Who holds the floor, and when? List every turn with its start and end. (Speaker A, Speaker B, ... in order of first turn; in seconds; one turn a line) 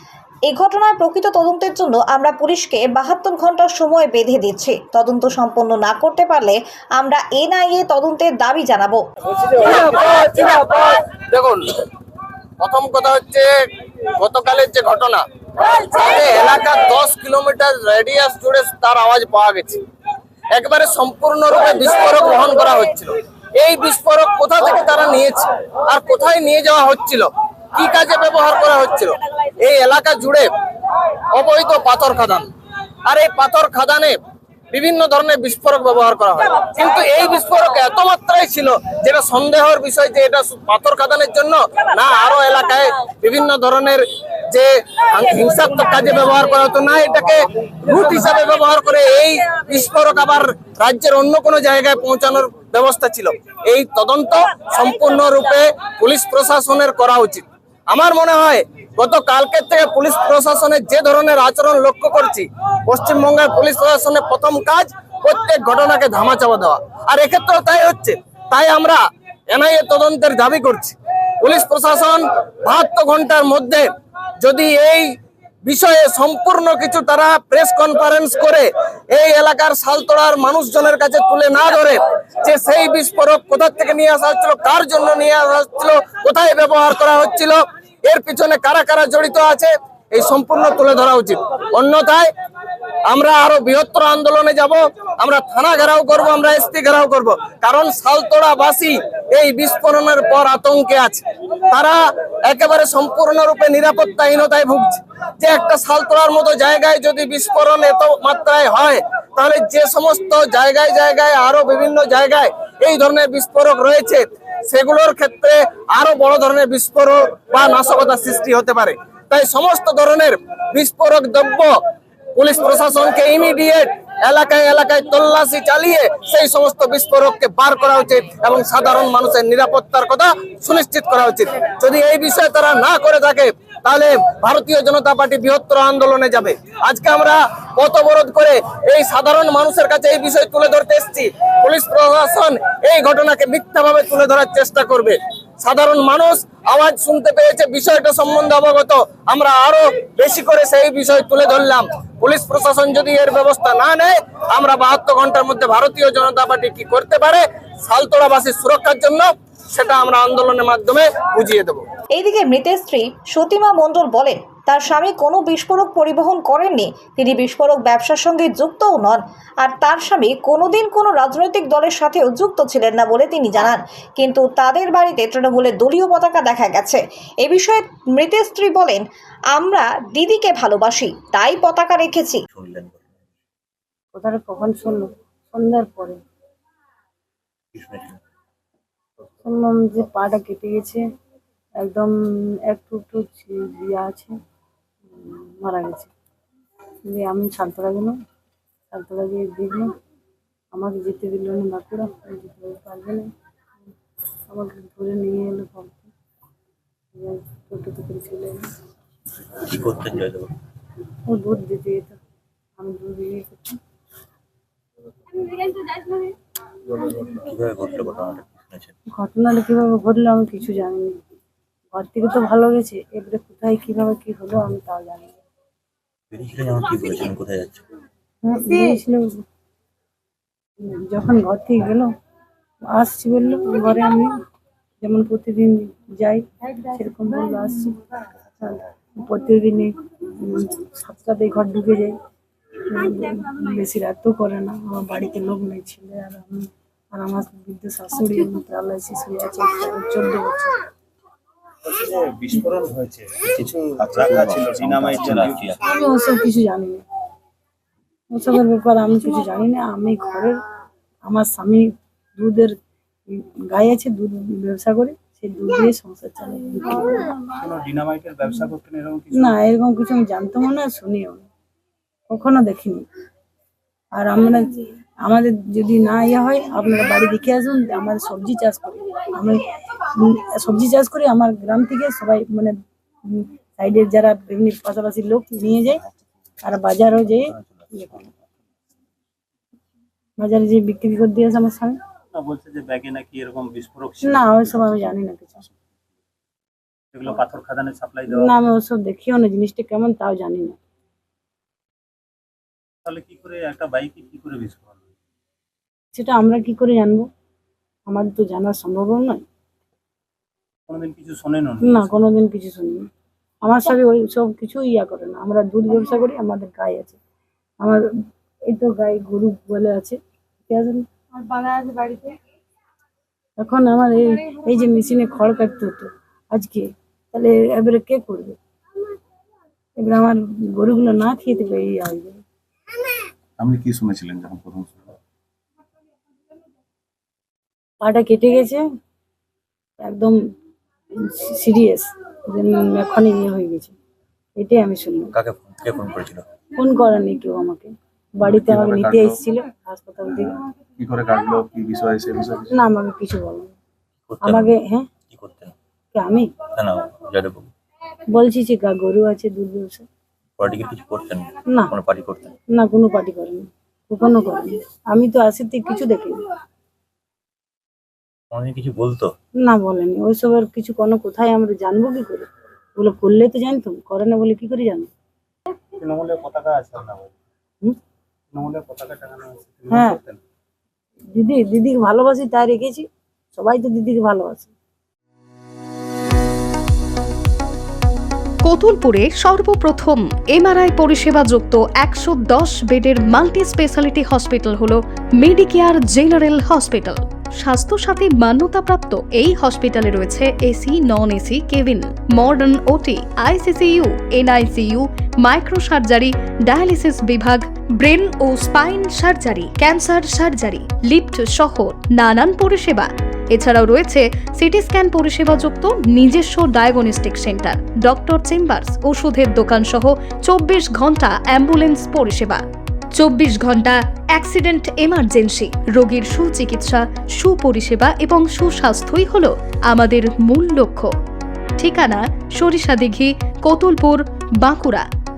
Speaker A: 0.5-9.0
Speaker B: 9.3-11.8
Speaker B: 12.6-13.5
Speaker B: 14.2-19.8
Speaker B: 20.6-30.5
Speaker B: 31.3-32.5
Speaker B: 33.1-34.2
Speaker B: 34.7-73.9
Speaker B: 74.4-75.1
Speaker B: 75.7-92.3
Speaker B: 93.1-121.7
Speaker B: 122.4-161.8
Speaker A: 162.2-179.0
Speaker A: 179.6-182.4
Speaker C: 182.5-183.2
Speaker D: 184.1-186.2
Speaker C: 187.7-188.2
Speaker D: 189.4-191.0
Speaker D: 191.8-192.1
Speaker D: 192.7-194.3
Speaker D: 195.1-196.1
Speaker D: 197.1-198.2
Speaker D: 198.9-199.9
Speaker D: 200.7-203.3
Speaker D: 204.5-206.1
Speaker D: 207.2-208.6
Speaker C: 209.5-210.5
Speaker D: 211.3-212.2
Speaker D: 212.8-213.7
Speaker C: 216.9-218.9
Speaker D: 219.2-221.2
Speaker D: 221.9-225.4
Speaker C: 226.3-227.8
Speaker D: 228.4-229.4
Speaker D: 230.8-232.1
Speaker D: 232.9-234.3
Speaker D: 235.0-237.9
Speaker D: 238.6-242.1
Speaker D: 242.9-250.7
Speaker E: 251.8-255.8
Speaker C: 253.4-255.8
Speaker F: 254.0-254.2
Speaker D: 255.8-257.0
Speaker D: 258.3-260.6
Speaker D: 261.3-261.9
Speaker D: 262.4-262.7
Speaker D: 263.3-267.3
Speaker E: 267.4-269.6
Speaker D: 269.3-271.5
Speaker D: 272.3-273.0
Speaker D: 274.1-279.6
Speaker D: 280.1-282.7
Speaker D: 283.3-286.0
Speaker D: 286.6-288.3
Speaker C: 287.1-288.0
Speaker D: 290.4-292.0
Speaker E: 292.3-295.1
Speaker D: 294.2-295.6
Speaker E: 297.1-298.6
Speaker D: 298.3-300.8
Speaker E: 303.1-305.1
Speaker D: 306.1-307.3
Speaker D: 308.1-309.4
Speaker E: 310.9-312.3
Speaker D: 311.8-313.1
Speaker D: 313.6-317.2
Speaker D: 318.7-321.1
Speaker D: 323.6-328.6
Speaker D: 330.0-332.4
Speaker F: 333.6-335.1
Speaker D: 338.0-338.8
Speaker D: 340.0-340.4
Speaker D: 341.2-343.9
Speaker D: 344.6-345.3
Speaker C: 345.3-346.5
Speaker D: 346.8-350.6
Speaker F: 348.4-349.4
Speaker F: 351.0-352.8
Speaker D: 352.7-353.7
Speaker C: 354.3-354.8
Speaker D: 354.4-355.1
Speaker C: 355.3-355.8
Speaker D: 356.1-356.6
Speaker C: 356.7-357.7
Speaker D: 358.3-360.1
Speaker C: 360.6-362.6
Speaker D: 362.7-366.4
Speaker C: 368.5-369.3
Speaker D: 369.6-375.1
Speaker E: 376.0-377.4
Speaker E: 378.5-380.4
Speaker D: 379.9-380.2
Speaker D: 381.3-384.7
Speaker G: 388.6-422.6
Speaker G: 423.2-431.1
Speaker G: 431.8-435.1